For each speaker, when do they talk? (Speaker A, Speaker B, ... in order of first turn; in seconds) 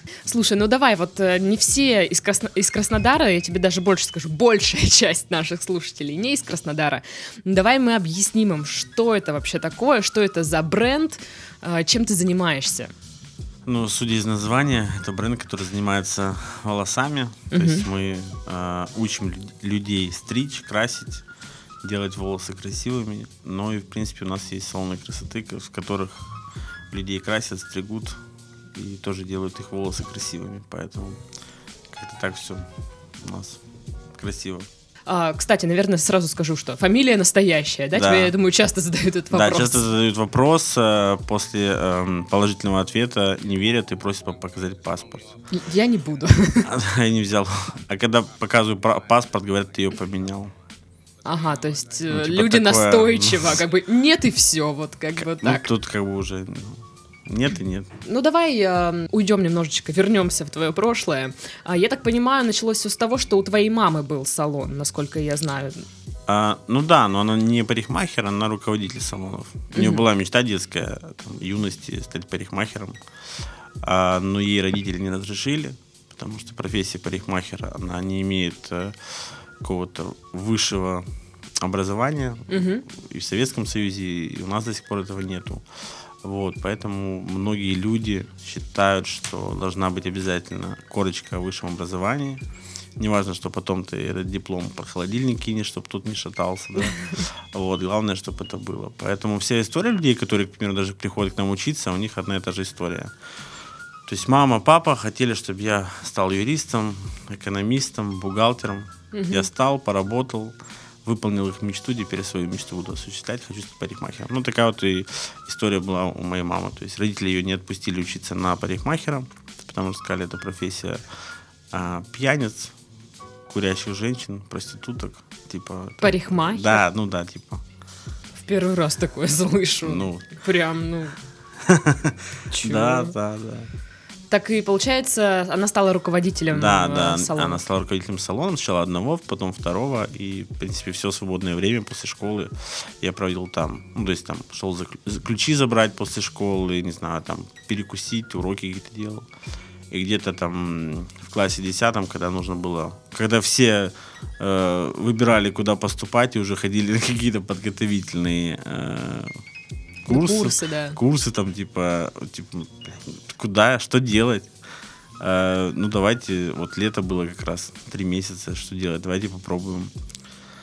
Speaker A: 0.2-12.9, 17.5-17.9, 35.1-39.9, 45.5-46.7, 51.2-55.7, 58.0-65.9, 69.7-70.0, 82.5-82.8, 109.1-109.5, 126.0-126.8, 128.3-131.2, 132.5-133.2, 134.3-137.6, 160.1-161.0
Speaker B: 13.6-21.2, 21.8-26.3, 26.9-28.2, 28.7-31.2, 31.9-32.6, 33.2-33.6, 34.1-34.7, 37.9-38.3, 39.3-45.4, 46.6-50.5, 52.1-53.6, 55.2-57.9, 66.3-73.0, 73.8-81.0, 81.6-85.7, 86.2-92.4, 93.0-103.1, 104.0-121.0, 121.7-122.7, 123.5-127.6, 129.8-130.2, 131.6-133.7, 136.5-149.3, 149.9-159.4, 160.1-164.5, 165.2-169.9